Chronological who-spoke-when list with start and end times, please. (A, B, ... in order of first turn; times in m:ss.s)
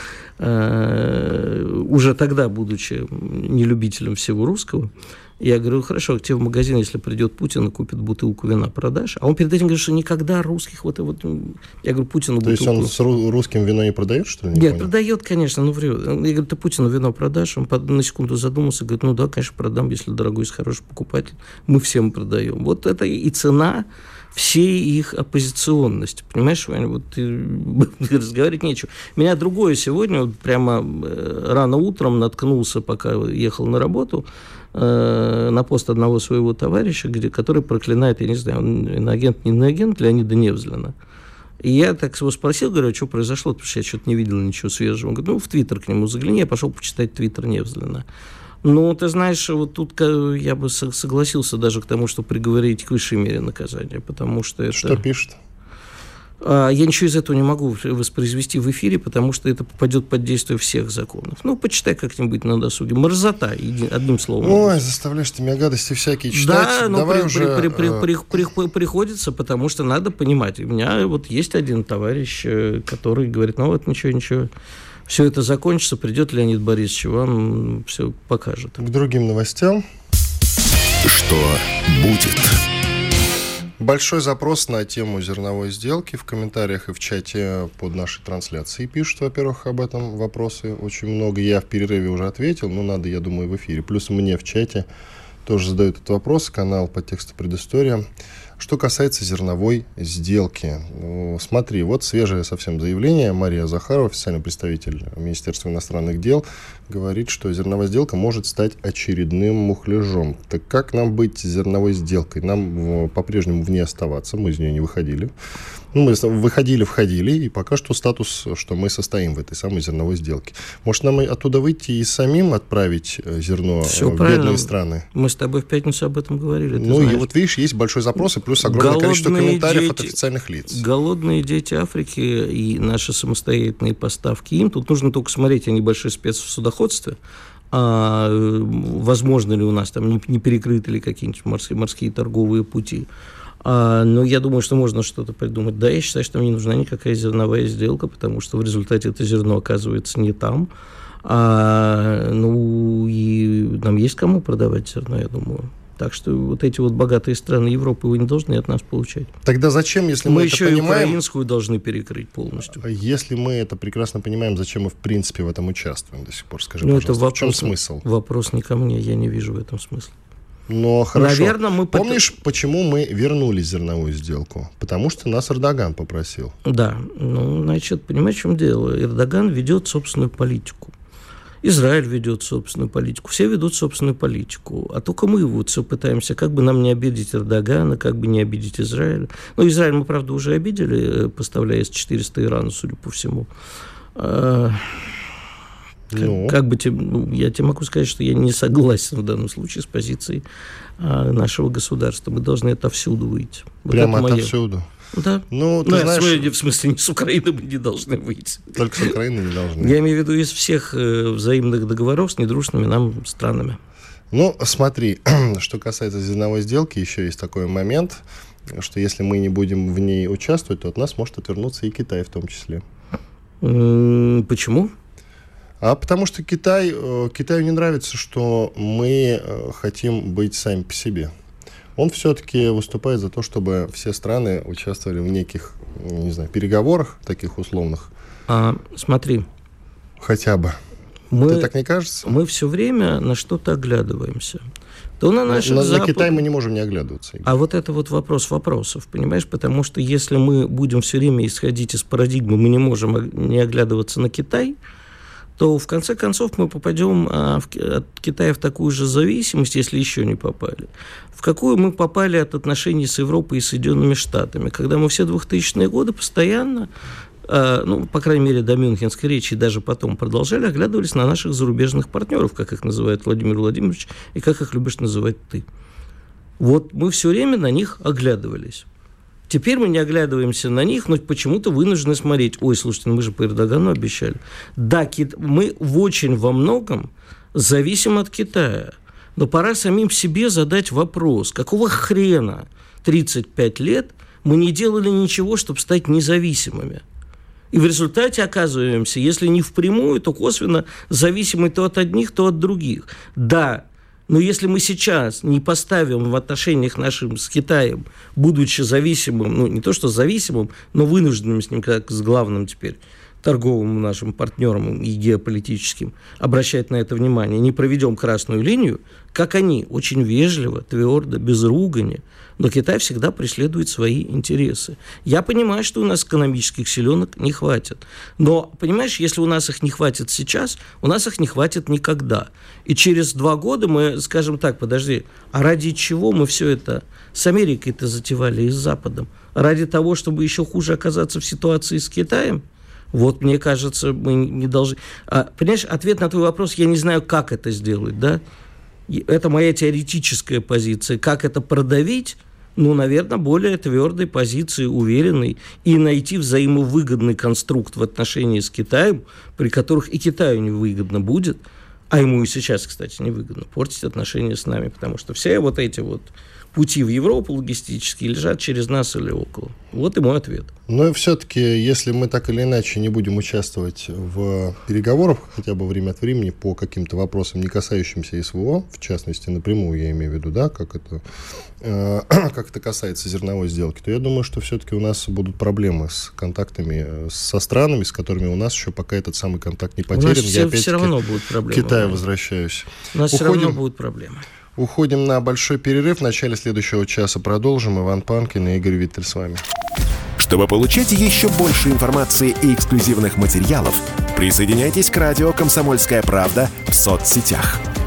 0:00.4-0:12.9 A
0:12.4-0:14.9 B
0:14.5-0:40.9 A
0:41.6-0:48.0 A
0:48.6-0:55.0 A
0:54.7-0:55.4 B
0:56.4-1:04.8 A
1:04.4-1:08.1 B
1:06.3-1:14.5 A
1:15.1-1:18.8 A
1:18.8-1:19.8 B
1:21.0-1:22.6 C
1:23.8-1:34.9 B
1:35.4-1:38.0 B
1:38.6-1:55.3 B
1:55.9-2:05.0 B
2:03.8-2:07.3 A
2:06.8-2:10.8 B
2:08.6-2:10.1 A
2:10.7-2:17.2 A
2:17.7-2:23.1 A
2:23.6-2:30.7 A
2:31.2-2:39.3 A
2:39.4-2:41.2 B
2:40.2-2:42.8 A
2:42.7-2:48.0 B
2:46.8-2:50.1 A
2:50.7-2:56.5 B
2:51.1-2:52.2 A
2:56.6-3:00.9 A
3:01.6-3:13.5 A
3:14.2-3:15.2 A
3:16.1-3:16.6 B
3:16.2-3:20.4 A
3:21.0-3:24.5 A
3:23.9-3:24.9 B
3:25.1-3:29.1 A
3:25.5-3:26.5 B
3:28.7-3:30.0 B
3:29.8-3:33.8 A
3:34.3-3:42.8 B
3:43.6-3:44.9 A
3:45.8-3:51.3 B
3:52.0-3:58.1 B
3:58.5-3:59.4 A
4:00.2-4:00.8 B
4:01.3-4:01.7 A
4:01.4-4:02.3 B
4:02.2-4:04.6 A
4:05.2-4:06.3 A
4:05.5-4:07.5 B
4:07.4-4:14.8 A
4:15.6-4:26.9 A
4:27.5-4:35.6 A
4:36.6-4:38.8 A
4:39.5-4:57.0 A
4:57.7-5:48.4 A
5:49.1-6:01.6 A
6:02.1-6:10.7 A
6:10.9-6:21.2 B
6:21.8-6:31.1 B
6:30.1-6:32.2 A
6:31.7-6:33.8 B
6:33.1-6:34.4 A
6:34.8-6:39.6 B
6:40.4-6:47.8 C